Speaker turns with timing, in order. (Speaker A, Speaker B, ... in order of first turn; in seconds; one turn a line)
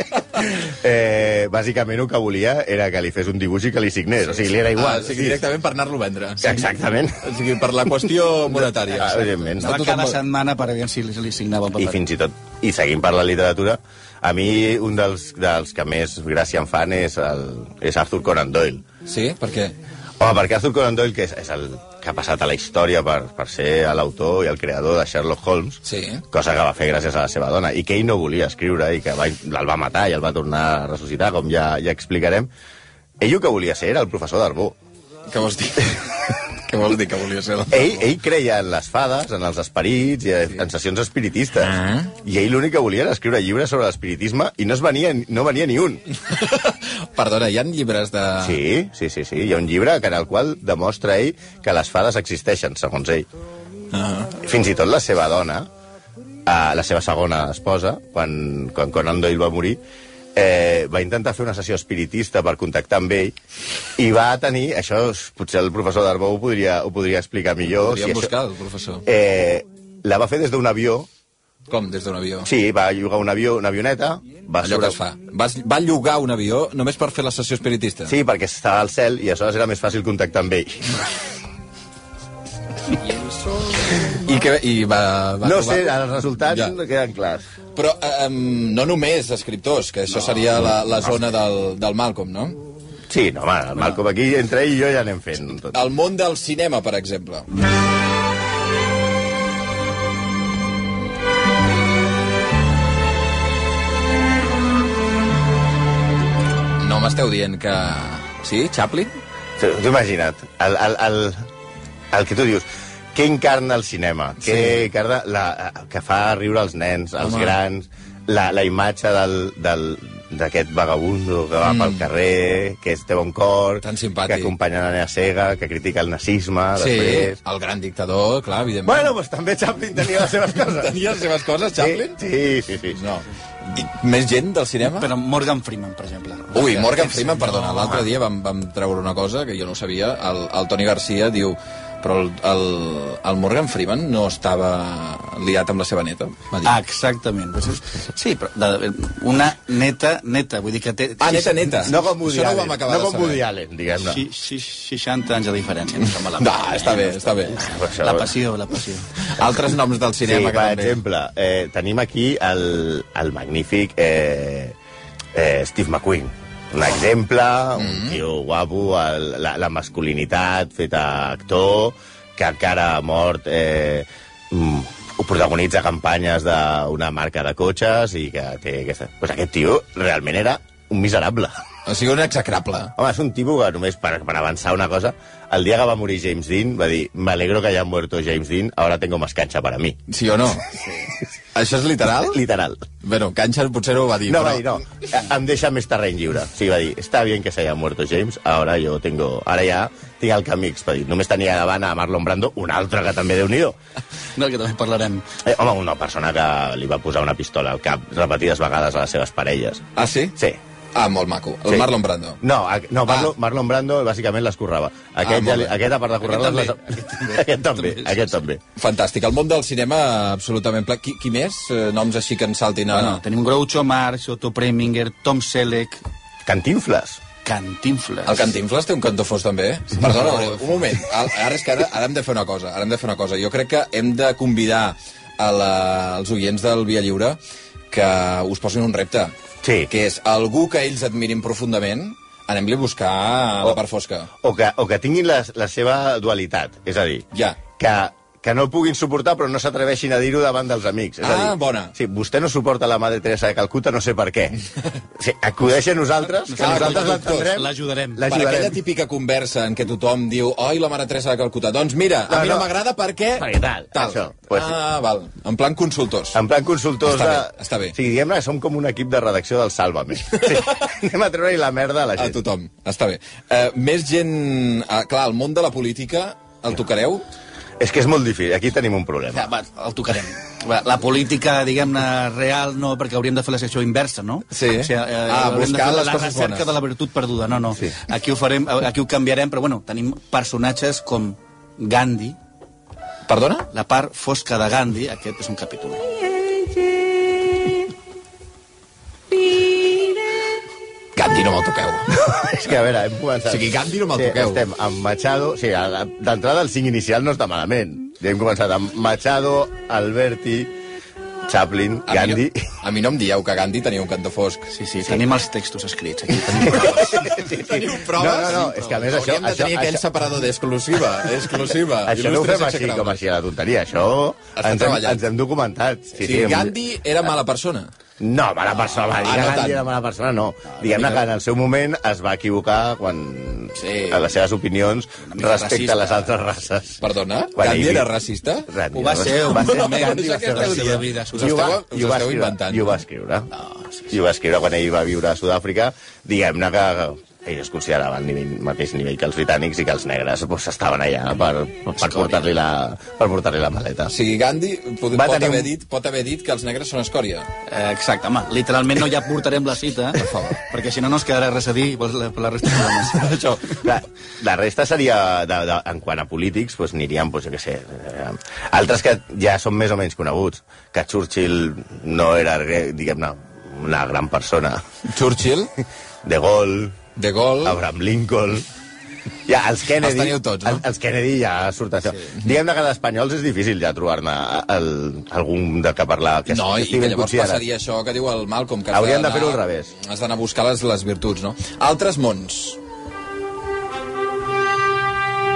Speaker A: 0.3-5.4
Speaker B: 4.3-6.7
Speaker A: 6.4-7.2
Speaker B: 7.2-10.2
Speaker A: 8.6-9.7
Speaker C: 9.6-12.0
Speaker A: 11.8-18.8
Speaker B: 19.1-19.8
Speaker A: 20.2-25.8
Speaker B: 25.8-26.2
Speaker A: 26.3-32.5
Speaker A: 33.2-34.8
Speaker B: 35.3-38.0
Speaker A: 37.7-46.0
Speaker B: 41.6-42.1
Speaker B: 46.2-48.6
Speaker A: 48.4-53.2
Speaker B: 53.9-54.3
Speaker A: 54.4-55.7
Speaker A: 56.5-59.8
Speaker A: 60.4-63.4
Speaker A: 64.0-68.3
Speaker B: 67.8-69.0
Speaker A: 69.0-71.1
Speaker B: 71.7-72.5
Speaker A: 72.4-75.0
Speaker B: 74.6-78.2
Speaker A: 78.1-81.0
Speaker B: 84.0-85.9
Speaker A: 85.4-87.4
Speaker B: 86.5-86.7
Speaker B: 87.7-92.6
Speaker A: 93.1-95.7
Speaker B: 95.7-97.5
Speaker B: 106.8-109.2
Speaker A: 109.6-111.5
Speaker A: 112.1-127.4
Speaker B: 114.4-114.9
Speaker B: 117.2-117.6
Speaker B: 121.6-122.0
Speaker B: 123.8-124.5
Speaker B: 126.8-129.1
Speaker A: 128.8-130.9
Speaker B: 130.7-132.2
Speaker A: 131.8-133.0
Speaker B: 132.9-135.1
Speaker C: 134.8-137.7
Speaker B: 136.5-146.8
Speaker C: 146.6-152.0
Speaker B: 151.2-153.4
Speaker A: 151.8-154.2
Speaker C: 154.0-159.1
Speaker B: 156.0-157.6
Speaker A: 157.6-158.3
Speaker B: 159.2-161.0
Speaker A: 160.2-164.7
Speaker A: 165.3-181.5
Speaker B: 167.8-168.2
Speaker B: 181.8-182.9
Speaker A: 182.9-190.0
Speaker B: 190.1-190.7
Speaker C: 190.8-191.1
Speaker B: 191.5-192.4
Speaker A: 192.2-192.8
Speaker B: 193.0-194.8
Speaker A: 194.3-203.8
Speaker C: 204.3-205.3
Speaker A: 205.4-209.8
Speaker B: 209.9-210.3
Speaker B: 210.9-212.4
Speaker A: 212.4-218.6
Speaker B: 213.1-213.3
Speaker B: 215.2-216.7
Speaker C: 217.2-218.2
Speaker B: 218.8-223.2
Speaker C: 222.9-226.0
Speaker A: 226.4-227.2
Speaker C: 227.4-228.5
Speaker B: 228.2-237.4
Speaker B: 237.9-239.3
Speaker A: 239.6-239.9
Speaker B: 239.9-244.3
Speaker A: 244.4-247.2
Speaker B: 247.3-247.6
Speaker A: 247.8-254.6
Speaker B: 251.2-251.9
Speaker A: 255.2-258.8
Speaker C: 256.5-258.3
Speaker B: 256.6-257.5
Speaker B: 258.3-266.4
Speaker A: 262.3-262.7
Speaker A: 263.4-264.7
Speaker A: 266.3-272.4
Speaker B: 267.0-267.9
Speaker B: 270.3-270.9
Speaker B: 272.2-277.2
Speaker A: 277.8-279.4
Speaker C: 279.3-292.4
Speaker B: 284.5-286.7
Speaker B: 293.3-293.7
Speaker C: 293.7-296.2
Speaker B: 301.1-302.1
Speaker A: 302.1-310.7
Speaker B: 303.4-304.6
Speaker A: 311.5-312.7
Speaker B: 312.1-314.7
Speaker C: 314.7-317.2
Speaker A: 316.5-320.0
Speaker B: 316.6-323.2
Speaker A: 322.0-326.7
Speaker B: 324.6-325.2
Speaker B: 326.2-327.9
Speaker A: 328.2-337.0
Speaker B: 328.9-329.9
Speaker C: 333.8-334.3
Speaker C: 335.2-336.3
Speaker B: 337.0-338.7
Speaker A: 337.5-338.1
Speaker A: 338.7-343.5
Speaker C: 338.9-341.5
Speaker B: 339.3-343.0
Speaker C: 343.6-344.1
Speaker A: 344.1-354.1
Speaker C: 352.0-352.4
Speaker B: 354.1-357.5
Speaker A: 355.1-355.7
Speaker C: 357.6-363.5
Speaker B: 360.1-360.6
Speaker B: 363.1-363.6
Speaker A: 363.8-374.9
Speaker B: 375.1-375.7
Speaker A: 376.2-377.0
Speaker B: 377.1-377.8
Speaker A: 377.6-378.6
Speaker A: 379.5-387.6
Speaker B: 380.0-380.8
Speaker B: 386.5-392.8
Speaker A: 388.9-389.9